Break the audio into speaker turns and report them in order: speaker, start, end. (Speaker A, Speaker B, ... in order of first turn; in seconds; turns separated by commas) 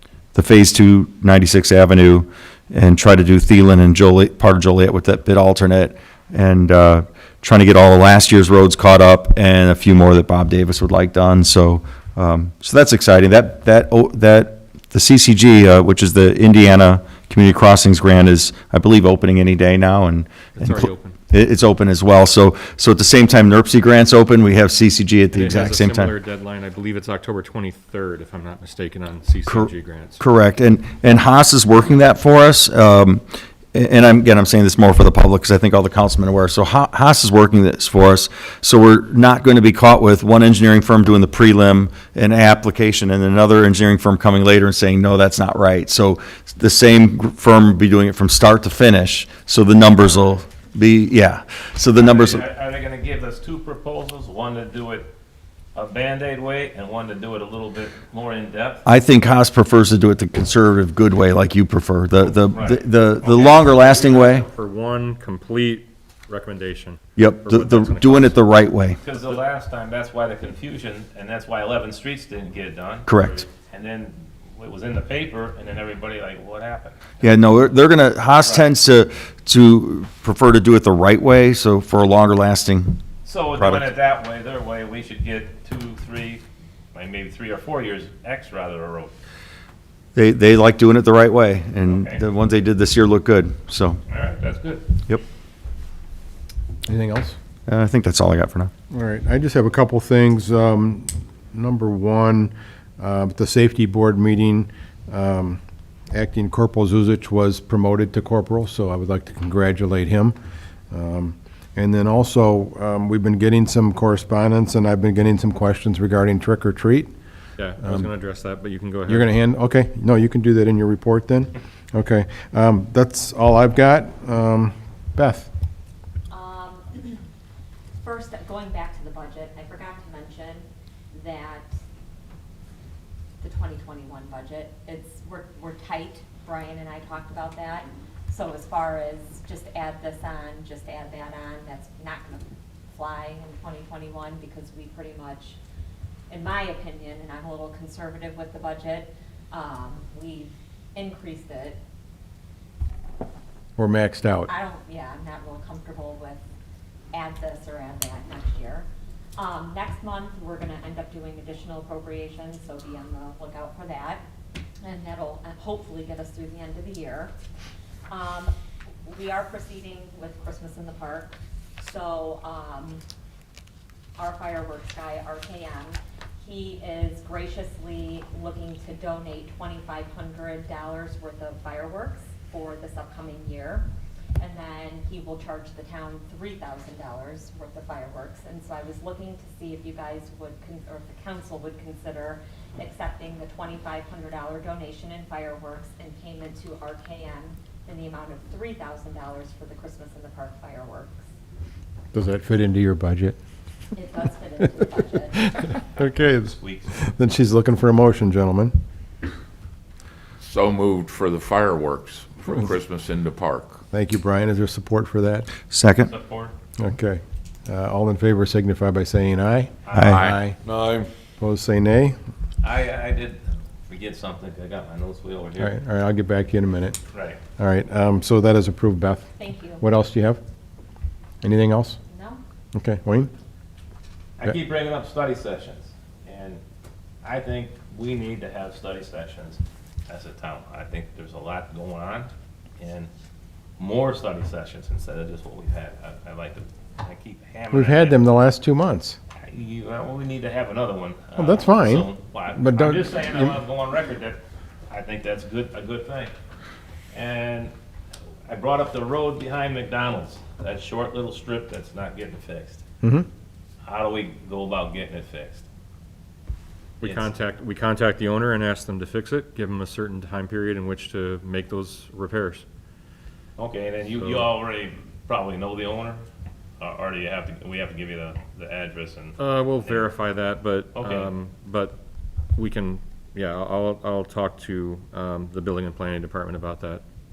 Speaker A: 0.3-26.1, Speaker B: 20.6-21.1, Speaker B: 25.3-30.2, Speaker A: 29.4-33.2, Speaker A: 33.7-52.4, Speaker C: 51.9-55.1, Speaker C: 55.7-58.9, Speaker A: 58.8-64.5, Speaker C: 62.2-63.5, Speaker B: 63.2-68.4, Speaker A: 67.2-69.0, Speaker C: 69.0-77.4, Speaker A: 73.0-73.4, Speaker A: 77.2-83.0, Speaker C: 78.4-78.6, Speaker C: 83.2-86.4, Speaker A: 83.5-83.9, Speaker C: 86.9-89.1, Speaker A: 90.1-94.0, Speaker C: 91.8-92.2, Speaker C: 94.1-94.9, Speaker D: 96.8-97.4, Speaker A: 97.7-98.7, Speaker D: 98.9-105.6, Speaker D: 106.1-110.3, Speaker D: 110.9-117.1, Speaker B: 117.6-119.3, Speaker D: 117.8-118.1, Speaker D: 119.1-125.5, Speaker E: 126.3-127.2, Speaker E: 128.0-131.7, Speaker E: 133.4-145.6, Speaker E: 146.3-151.8, Speaker D: 153.8-154.5, Speaker E: 154.5-156.4, Speaker E: 157.1-164.2, Speaker E: 164.8-167.3, Speaker E: 168.1-168.5, Speaker E: 169.0-173.0, Speaker E: 174.2-183.8, Speaker E: 184.4-201.2, Speaker D: 202.1-203.4, Speaker E: 203.9-205.4, Speaker D: 205.3-208.7, Speaker C: 206.0-206.9, Speaker F: 210.4-213.8, Speaker D: 213.9-215.5, Speaker A: 215.7-216.1, Speaker C: 216.0-216.5, Speaker D: 216.8-220.6, Speaker C: 219.8-220.2, Speaker A: 219.9-220.2, Speaker F: 220.0-221.1, Speaker D: 221.4-222.2, Speaker C: 222.6-225.8, Speaker D: 225.6-227.0, Speaker C: 227.1-227.4, Speaker D: 227.6-230.4, Speaker E: 229.4-229.8, Speaker D: 231.4-232.0, Speaker E: 232.1-232.4, Speaker D: 232.7-233.3, Speaker C: 234.4-236.6, Speaker C: 237.2-243.1, Speaker C: 243.8-248.3, Speaker D: 247.7-249.2, Speaker C: 249.3-256.3, Speaker D: 251.4-253.6, Speaker C: 257.1-257.7, Speaker C: 258.5-262.8, Speaker D: 263.0-263.3, Speaker C: 263.8-265.6, Speaker B: 267.0-272.6, Speaker C: 267.0-267.3, Speaker C: 273.6-276.2, Speaker B: 274.2-274.5, Speaker C: 276.8-280.1, Speaker B: 279.4-282.0, Speaker C: 280.9-281.3, Speaker B: 282.5-287.0